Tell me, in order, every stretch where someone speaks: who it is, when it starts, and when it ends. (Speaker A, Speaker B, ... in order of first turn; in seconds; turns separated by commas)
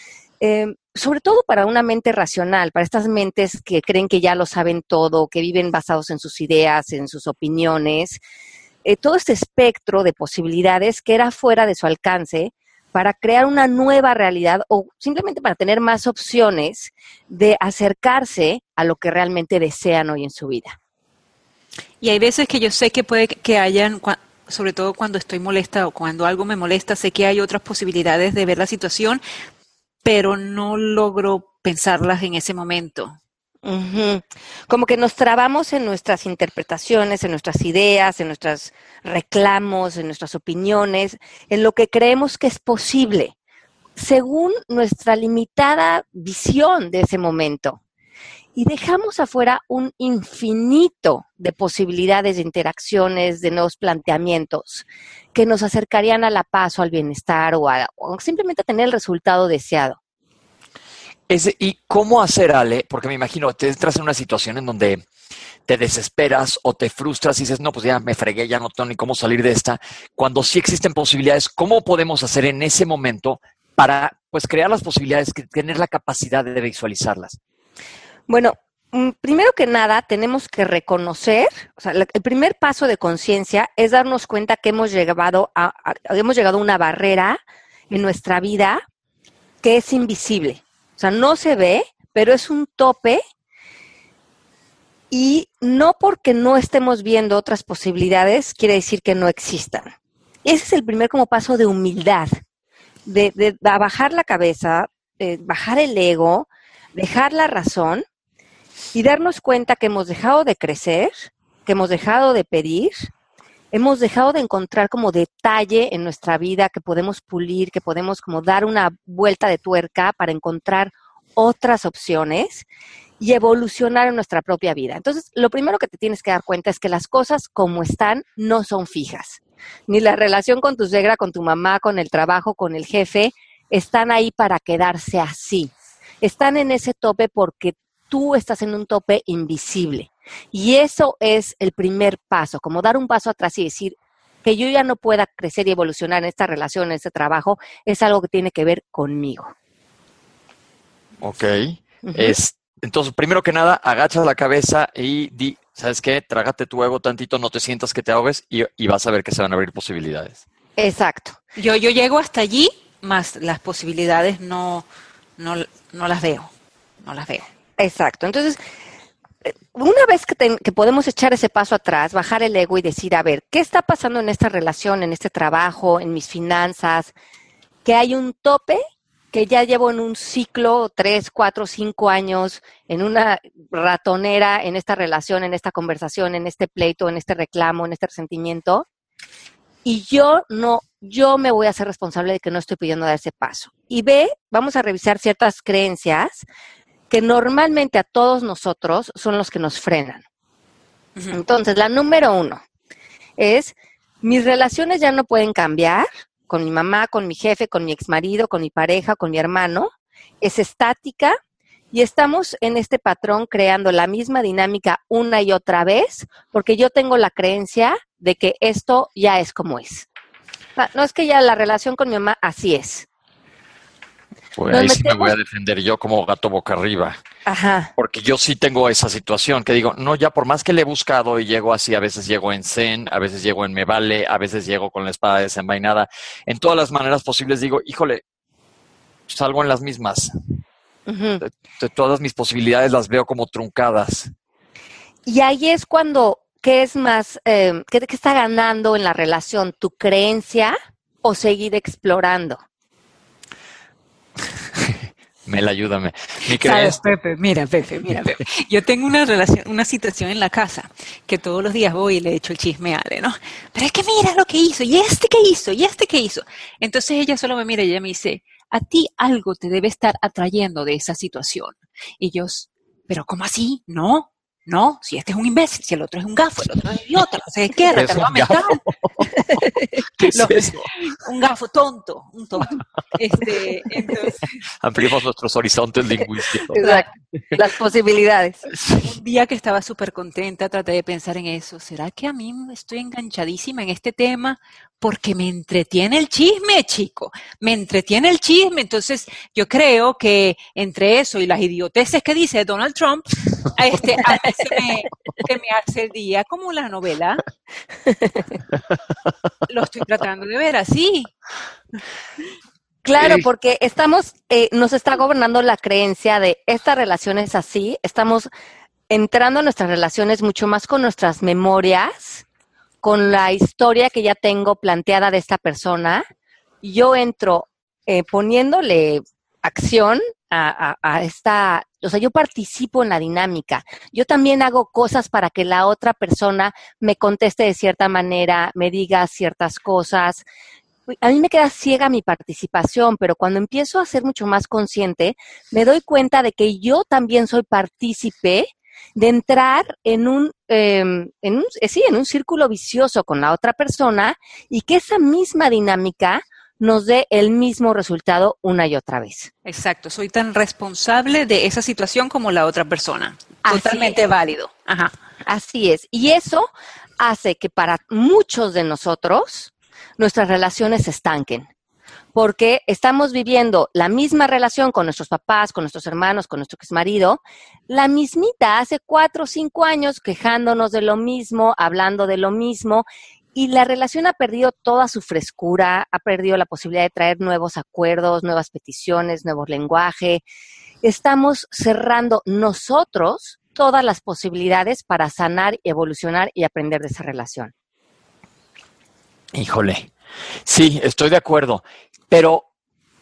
Speaker A: 0.4-8.2, Speaker A: 8.8-20.8, Speaker B: 22.0-29.2, Speaker B: 30.0-33.2, Speaker A: 33.6-43.3, Speaker A: 44.0-47.8, Speaker A: 48.5-60.0, Speaker C: 61.3-65.0, Speaker C: 65.7-77.4, Speaker A: 78.3-88.8, Speaker A: 89.6-93.2, Speaker A: 95.1-102.3, Speaker A: 103.0-108.0, Speaker A: 108.9-113.1, Speaker A: 113.7-122.7, Speaker A: 123.2-149.5, Speaker C: 151.2-160.4, Speaker A: 152.0-152.4, Speaker A: 160.8-161.4, Speaker B: 161.6-164.8, Speaker B: 165.4-166.5, Speaker B: 167.0-167.5, Speaker A: 167.8-168.6, Speaker A: 169.4-177.1, Speaker A: 177.8-188.8, Speaker A: 189.8-196.4, Speaker A: 197.1-200.2, Speaker A: 201.3-202.6, Speaker A: 203.4-209.9, Speaker A: 210.4-211.4, Speaker A: 211.9-220.1, Speaker A: 220.8-223.1, Speaker C: 224.6-227.2, Speaker A: 224.7-225.3, Speaker A: 227.4-227.9, Speaker C: 228.0-238.2, Speaker C: 239.3-240.3, Speaker A: 241.1-241.4, Speaker C: 241.4-244.3, Speaker A: 245.2-252.6, Speaker C: 254.7-257.0, Speaker B: 256.5-278.8, Speaker C: 277.9-279.6, Speaker C: 280.2-280.9, Speaker B: 280.2-284.5, Speaker C: 284.8-286.8, Speaker A: 286.7-288.6, Speaker B: 286.8-287.0, Speaker C: 288.7-289.1, Speaker B: 289.0-307.4, Speaker A: 308.1-308.4, Speaker B: 309.7-311.3, Speaker A: 313.0-318.5, Speaker C: 313.2-313.4, Speaker A: 319.1-322.4, Speaker A: 323.0-326.2, Speaker A: 326.8-340.4, Speaker A: 341.1-359.5, Speaker B: 359.6-365.1, Speaker A: 363.6-364.2, Speaker A: 365.4-371.7, Speaker A: 372.3-390.4, Speaker A: 391.0-397.7, Speaker C: 399.5-400.1, Speaker C: 400.6-402.7